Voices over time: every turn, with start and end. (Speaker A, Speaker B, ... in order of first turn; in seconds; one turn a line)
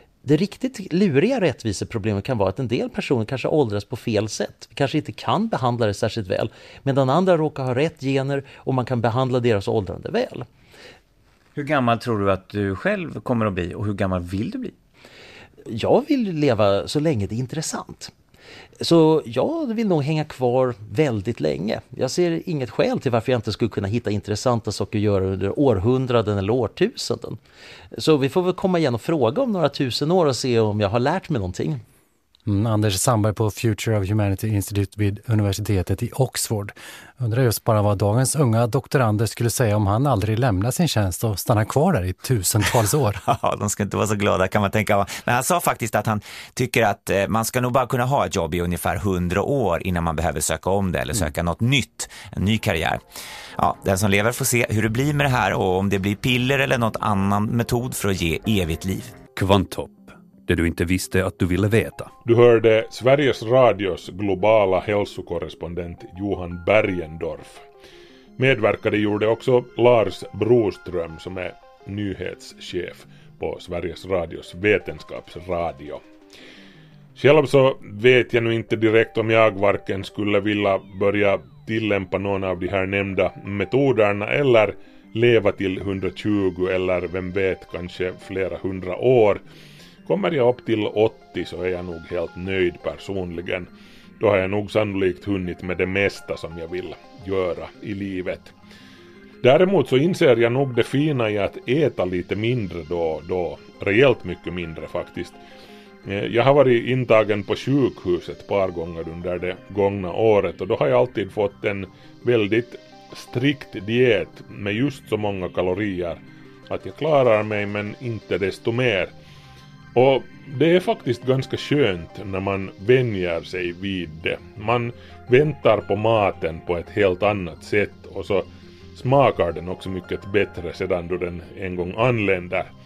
Speaker A: 0.2-10.5
Speaker B: 11.6-14.7
Speaker A: 15.7-18.1
Speaker A: 18.8-27.4
Speaker A: 27.9-31.8
Speaker C: 32.5-43.2
Speaker B: 43.2-53.0
Speaker B: 53.6-59.1
Speaker D: 59.4-62.1
Speaker E: 62.2-67.6
Speaker E: 68.4-76.0
Speaker E: 77.2-89.4
Speaker E: 90.1-98.5
Speaker E: 99.4-105.4
Speaker E: 106.0-119.1
Speaker E: 119.9-132.7